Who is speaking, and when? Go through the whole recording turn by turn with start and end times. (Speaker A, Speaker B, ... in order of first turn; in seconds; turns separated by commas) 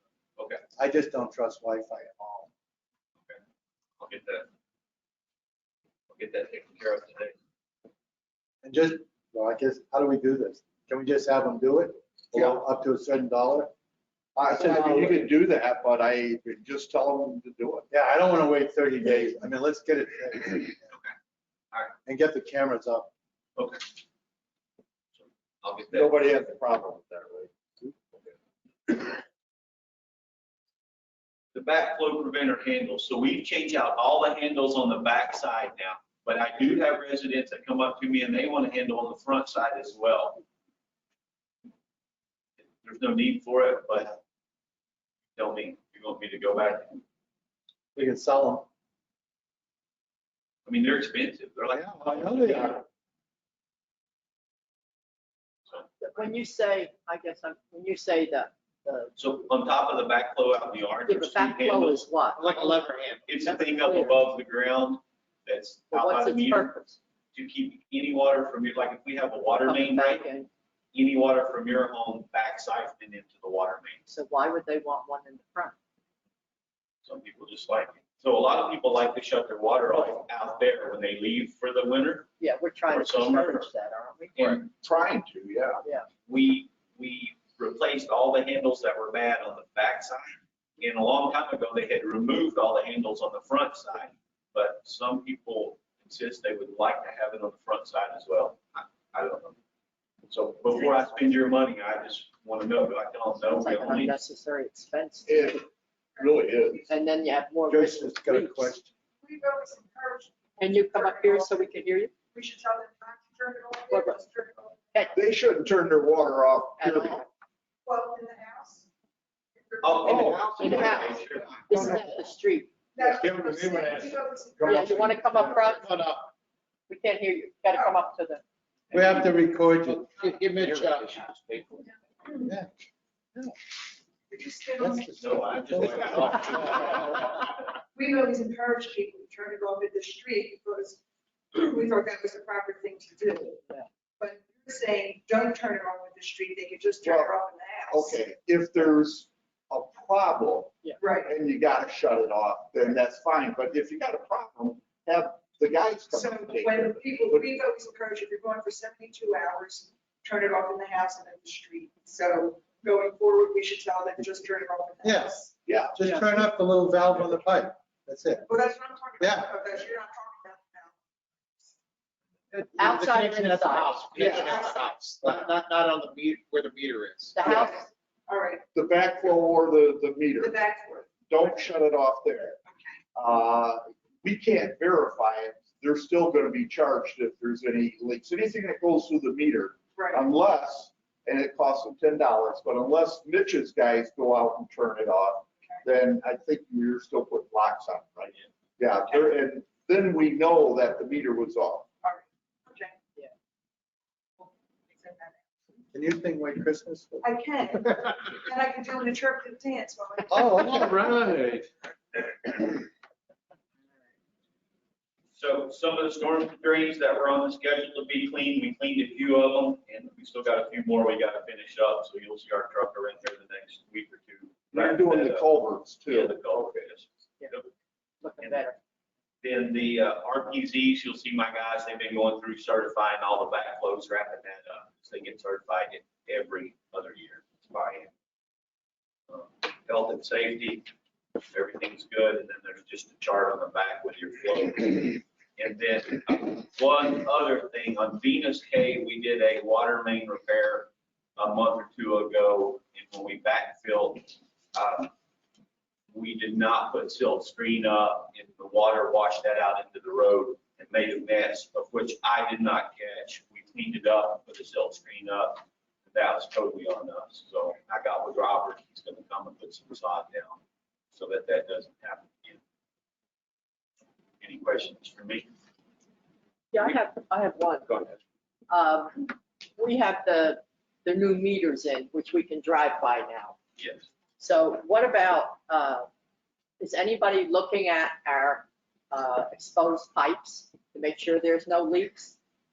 Speaker A: 0.4-0.6, Speaker B: 0.8-2.5, Speaker A: 4.0-4.5, Speaker A: 6.1-7.3, Speaker B: 8.6-13.7, Speaker C: 14.4-17.9, Speaker B: 14.5-15.3, Speaker B: 17.9-20.8, Speaker B: 22.1-23.1, Speaker A: 23.6-23.8, Speaker A: 25.2-26.2, Speaker C: 25.9-28.3, Speaker A: 31.5-40.4, Speaker A: 42.6-44.2, Speaker A: 45.4-47.0, Speaker B: 48.0-48.7, Speaker A: 50.7-52.8, Speaker B: 51.7-52.8, Speaker D: 56.0-59.1, Speaker A: 59.2-62.0, Speaker D: 61.1-62.9, Speaker E: 62.6-63.1, Speaker A: 63.3-66.8, Speaker D: 63.4-64.2, Speaker D: 65.9-67.0, Speaker A: 67.3-70.3, Speaker D: 69.7-70.5, Speaker A: 70.9-74.0, Speaker D: 74.1-75.8, Speaker A: 77.0-82.3, Speaker D: 82.4-84.6, Speaker A: 82.9-83.7, Speaker C: 84.4-85.8, Speaker A: 86.3-99.6, Speaker A: 100.2-104.2, Speaker D: 103.4-105.6, Speaker C: 105.3-105.7, Speaker F: 106.2-106.8, Speaker C: 106.2-106.9, Speaker D: 106.9-108.7, Speaker B: 107.7-108.9, Speaker F: 109.2-115.1, Speaker D: 110.6-112.1, Speaker D: 113.9-114.2, Speaker C: 115.1-117.2, Speaker D: 116.8-117.3, Speaker F: 117.8-118.9, Speaker F: 119.6-120.1, Speaker A: 119.8-122.0, Speaker C: 120.1-120.9, Speaker D: 120.1-122.7, Speaker E: 120.1-120.9, Speaker F: 123.0-125.1, Speaker E: 123.2-125.0, Speaker D: 124.6-126.0, Speaker B: 125.0-125.6, Speaker D: 126.9-128.4, Speaker B: 128.9-131.0, Speaker E: 130.3-131.9, Speaker B: 132.4-132.7, Speaker F: 134.3-135.5, Speaker B: 134.8-136.9, Speaker A: 135.2-137.2, Speaker F: 137.9-141.0, Speaker F: 141.5-143.6, Speaker F: 144.2-148.2, Speaker C: 147.0-147.3, Speaker C: 147.9-157.5, Speaker F: 151.0-151.3, Speaker F: 156.1-165.5, Speaker B: 165.0-165.4, Speaker C: 165.7-165.9, Speaker B: 165.9-168.5, Speaker F: 168.5-171.0, Speaker B: 169.2-169.5, Speaker E: 172.6-177.3, Speaker D: 172.8-174.7, Speaker C: 174.2-174.6, Speaker F: 174.5-175.4, Speaker D: 177.3-177.9, Speaker C: 177.4-177.7, Speaker F: 177.8-178.7, Speaker C: 178.7-182.6, Speaker F: 180.4-181.5, Speaker C: 183.2-201.9, Speaker F: 190.0-190.2, Speaker F: 202.0-203.0, Speaker F: 204.4-205.4, Speaker B: 205.9-207.3, Speaker F: 207.2-211.0, Speaker B: 210.3-211.7, Speaker A: 215.3-225.5, Speaker C: 224.7-226.6, Speaker A: 226.1-227.7, Speaker D: 228.2-228.8, Speaker A: 229.4-238.1, Speaker A: 239.3-255.1, Speaker A: 256.1-270.6, Speaker A: 271.1-272.6, Speaker A: 274.4-275.5, Speaker D: 276.7-277.9, Speaker A: 277.9-278.2, Speaker D: 278.7-283.6, Speaker A: 283.8-284.0, Speaker D: 284.4-286.1, Speaker D: 286.8-292.4